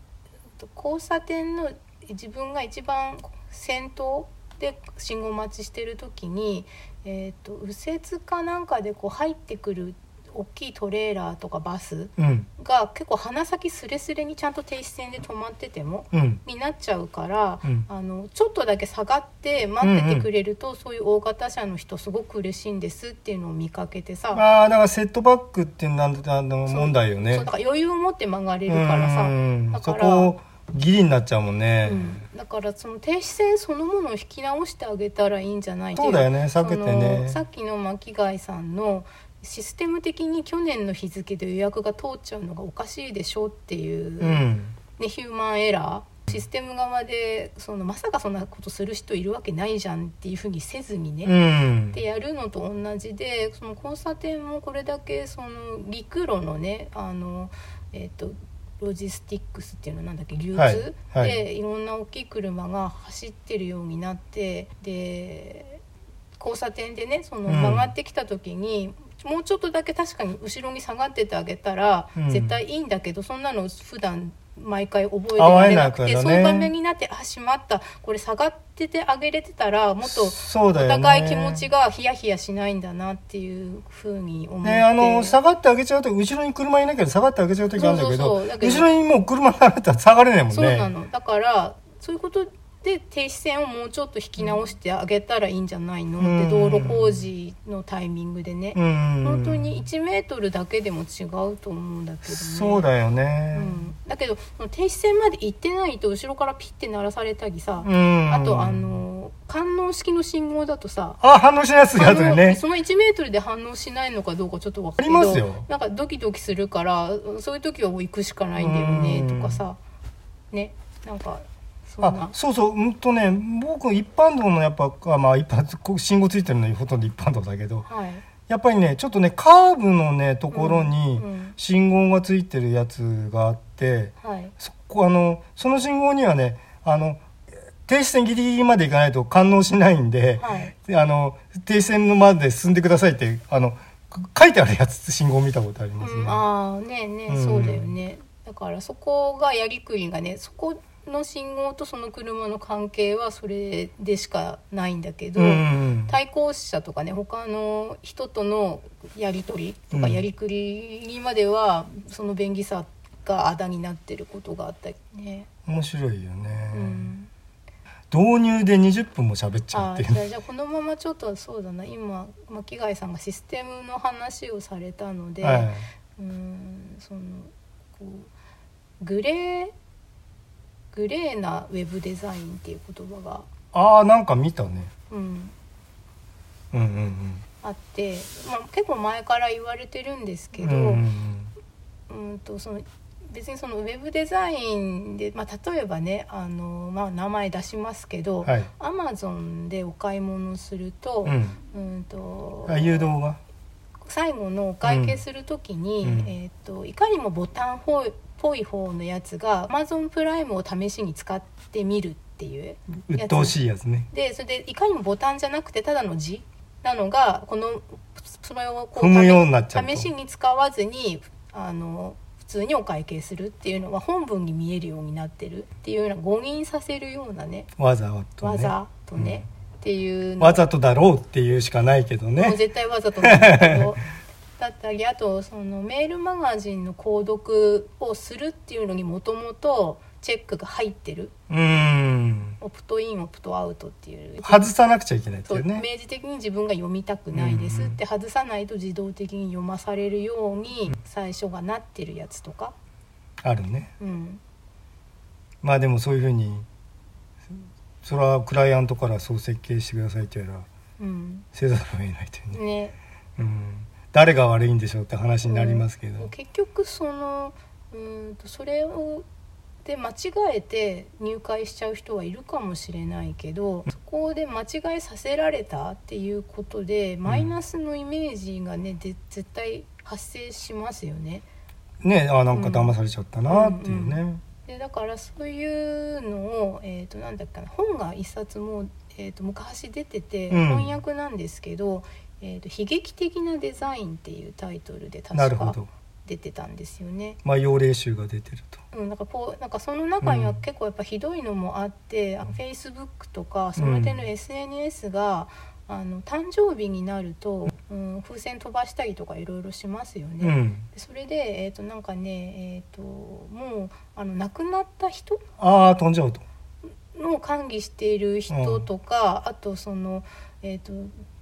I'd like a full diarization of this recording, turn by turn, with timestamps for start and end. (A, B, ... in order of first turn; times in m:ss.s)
0:00.6-0:24.4 A
0:12.2-0:12.5 B
0:16.1-0:16.4 B
0:19.8-0:20.3 B
0:24.3-0:27.5 B
0:26.7-0:30.4 A
0:28.7-0:32.2 B
0:31.8-0:44.4 A
0:36.0-0:37.4 B
0:44.2-0:44.7 B
0:45.0-0:51.4 A
0:51.2-0:52.0 B
0:51.9-1:05.8 A
1:00.6-1:01.4 B
1:06.4-1:25.4 A
1:07.5-1:07.9 B
1:12.2-1:12.6 B
1:15.4-1:16.7 B
1:20.0-1:21.6 B
1:24.6-1:30.9 B
1:27.7-1:28.9 A
1:30.5-1:42.9 A
1:36.2-1:37.2 B
1:38.7-1:39.7 B
1:42.2-1:43.7 B
1:43.5-1:51.2 A
1:47.8-1:48.9 B
1:51.2-1:52.6 B
1:51.9-1:59.8 A
1:55.0-1:55.7 B
1:58.6-1:59.6 B
2:00.5-2:02.3 A
2:02.0-2:07.9 B
2:07.9-2:08.2 A
2:08.5-2:17.2 B
2:10.5-2:11.6 A
2:14.2-2:14.5 A
2:17.8-2:26.4 B
2:20.4-2:20.7 A
2:26.0-2:45.5 A
2:27.3-2:27.9 B
2:35.4-2:36.1 B
2:39.9-2:40.2 B
2:45.7-2:47.0 B
2:46.7-2:47.3 A
2:48.1-2:50.2 B
2:49.7-2:58.3 A
2:55.4-2:55.8 B
2:59.0-2:59.7 A
3:00.9-3:03.5 A
3:03.7-3:04.9 B
3:05.1-3:05.5 A
3:06.7-3:07.4 B
3:07.6-3:11.0 A
3:10.6-3:11.5 B
3:12.1-3:23.1 A
3:18.4-3:18.7 B
3:21.2-3:21.6 B
3:22.7-3:23.4 B
3:24.0-3:33.5 A
3:24.8-3:25.2 B
3:26.0-3:26.3 B
3:33.0-3:34.1 B
3:34.1-3:47.7 A
3:39.0-3:40.1 B
3:47.8-3:49.4 B
3:48.4-3:50.6 A
3:50.4-3:52.6 B
3:52.4-3:54.0 A
3:53.2-3:53.9 B
3:54.6-4:01.4 A
4:01.5-4:02.6 B
4:02.6-4:04.7 A
4:04.4-4:05.9 B
4:05.5-4:12.7 A
4:07.3-4:08.0 B
4:13.4-4:13.9 B
4:14.0-4:14.4 A
4:15.6-4:16.6 B
4:18.0-4:20.7 B
4:21.0-4:21.4 A
4:21.5-4:22.6 B
4:22.5-4:23.0 A
4:23.4-4:26.3 B
4:25.4-4:29.2 A
4:29.8-4:41.4 A
4:42.0-4:44.4 B
4:42.5-4:42.9 A
4:43.5-4:57.4 A
4:50.5-4:50.9 B
4:55.3-4:55.9 B
4:57.4-4:58.8 B
4:58.9-5:15.4 A
5:00.2-5:00.6 B
5:03.8-5:04.2 B
5:10.4-5:10.9 B
5:15.6-5:16.4 B
5:17.1-5:21.2 A
5:18.5-5:18.8 B